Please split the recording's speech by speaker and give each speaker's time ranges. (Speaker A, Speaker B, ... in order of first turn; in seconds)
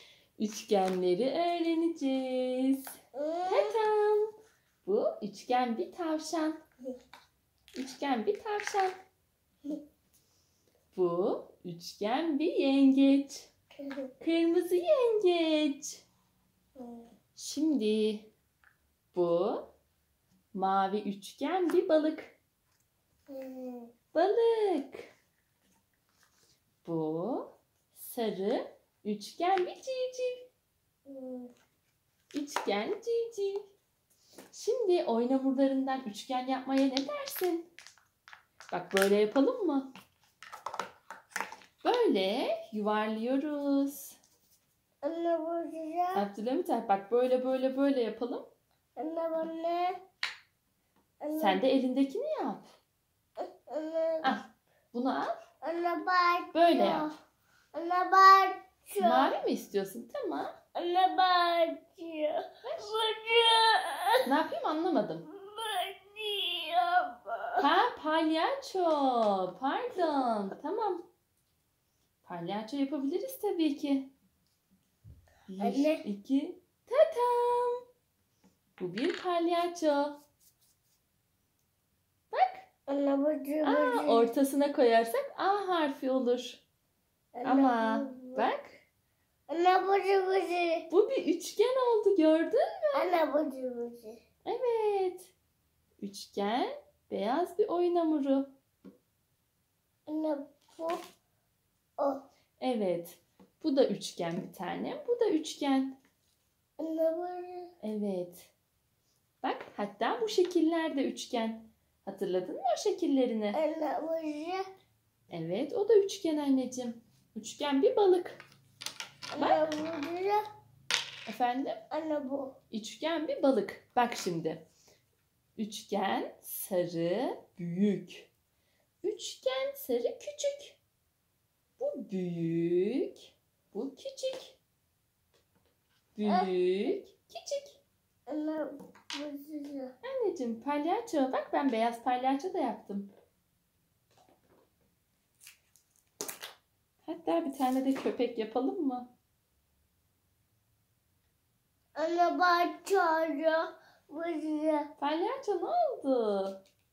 Speaker A: 0.4-2.9, 3.5-4.3, 4.8-6.6, 7.8-8.9, 10.9-13.5, 14.2-16.0, 17.4-18.3, 19.1-19.7, 20.5-22.4, 24.1-25.1, 26.8-30.5, 32.3-33.7, 34.5-37.7, 38.7-39.9, 41.8-44.2, 46.1-48.5, 51.4-52.7, 54.2-55.4, 56.5-57.1, 59.0-60.5, 62.6-62.9, 64.2-65.3, 67.6-71.0, 72.2-74.1, 75.5-77.8, 78.8-80.2, 82.3-82.7, 83.6-86.6, 87.4-88.8, 90.9-93.1, 94.5-95.3, 96.0-98.5, 102.6-106.0, 107.8-108.5, 109.4-113.6, 115.3-118.4, 119.4-119.7, 121.3-121.8, 122.7-124.6, 125.6-128.3, 129.0-130.8, 131.8-134.6, 136.2-137.8, 140.0-143.1, 147.1-149.1, 155.0-156.6
Speaker B: 3.1-3.8, 13.8-14.1, 16.8-17.1, 23.3-23.9, 31.1-31.5, 45.0-46.3, 49.0-50.0, 51.2-51.6, 53.4-54.3, 55.6-57.1, 57.7-59.3, 60.8-64.3, 65.3-67.6, 75.6-76.0, 82.9-84.3, 87.4-88.5, 89.5-90.9, 92.9-94.2, 100.1-101.0, 102.0-102.2, 106.8-107.7, 113.5-114.7, 119.3-120.4, 121.9-122.5, 136.2-136.5, 138.3-139.9, 152.0-154.9